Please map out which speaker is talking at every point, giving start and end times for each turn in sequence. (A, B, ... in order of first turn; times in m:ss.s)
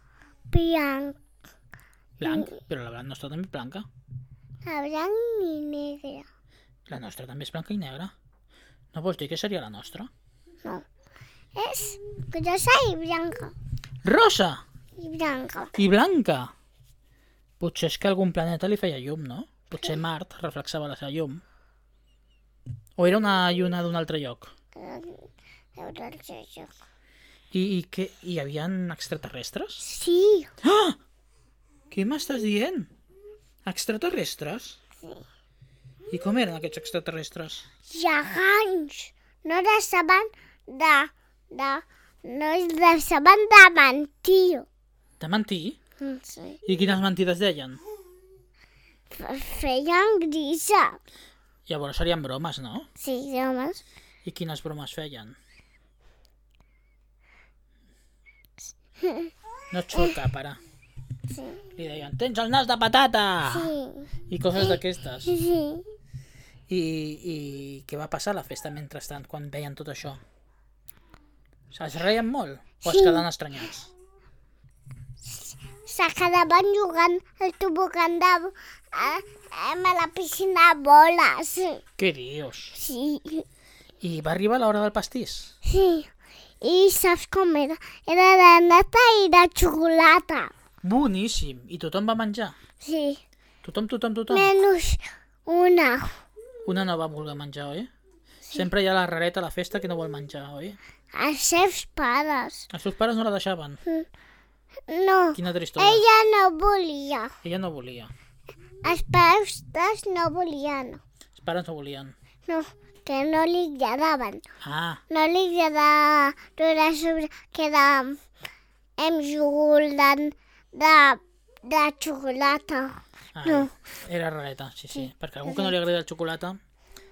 0:00.5-0:01.2 A
0:02.2-0:03.9 B
0:02.2-0:02.6 A
0:04.6-0:06.2 A
0:06.9-0:08.1 B
0:08.9-0:10.1 B
0:11.5-0:13.5 A
0:14.0-0:14.6 B
0:15.0-0:15.7 A
0:15.8-0:16.5 B
0:17.6-0:21.4 B
0:23.0-0:24.5 B
0:24.7-0:26.7 A
0:27.5-0:29.8 B
0:29.8-0:30.5 A
0:30.6-0:31.0 B
0:31.9-0:32.9 B
0:33.6-0:34.8 B
0:36.1-0:37.6 B
0:37.9-0:44.7 A
0:45.2-0:45.8 B
0:46.0-0:46.6 A
0:46.6-0:47.8 B
0:49.1-0:51.0 A
0:51.7-0:52.8 B
0:53.0-0:53.8 A
0:54.2-0:55.4 B
0:59.0-0:59.3 A
0:59.7-1:00.6 B
1:01.3-1:01.6 A
1:01.8-1:03.7 B
1:03.5-1:04.1 A
1:04.3-1:05.3 B
1:05.2-1:05.9 A
1:06.7-1:10.2 B
1:11.7-1:13.9 B
1:12.8-1:13.2 A
1:15.2-1:21.8 A
1:22.0-1:22.8 B
1:22.7-1:23.4 A
1:24.0-1:25.5 B
1:25.6-1:26.1 A
1:26.6-1:30.5 A
1:30.8-1:32.6 B
1:32.8-1:33.2 A
1:33.6-1:34.5 B
1:34.3-1:36.2 A
1:36.6-1:37.9 B
1:38.5-1:40.8 B
1:41.1-1:42.7 A
1:42.7-1:43.8 B
1:44.9-1:47.3 A
1:45.3-1:46.0 B
1:47.4-1:48.1 B
1:48.8-1:51.0 A
1:51.3-1:52.1 B
1:52.5-1:54.5 A
1:54.6-1:55.0 B
1:55.1-1:58.2 A
1:59.0-2:03.7 A
2:03.3-2:06.6 B
2:05.0-2:05.8 A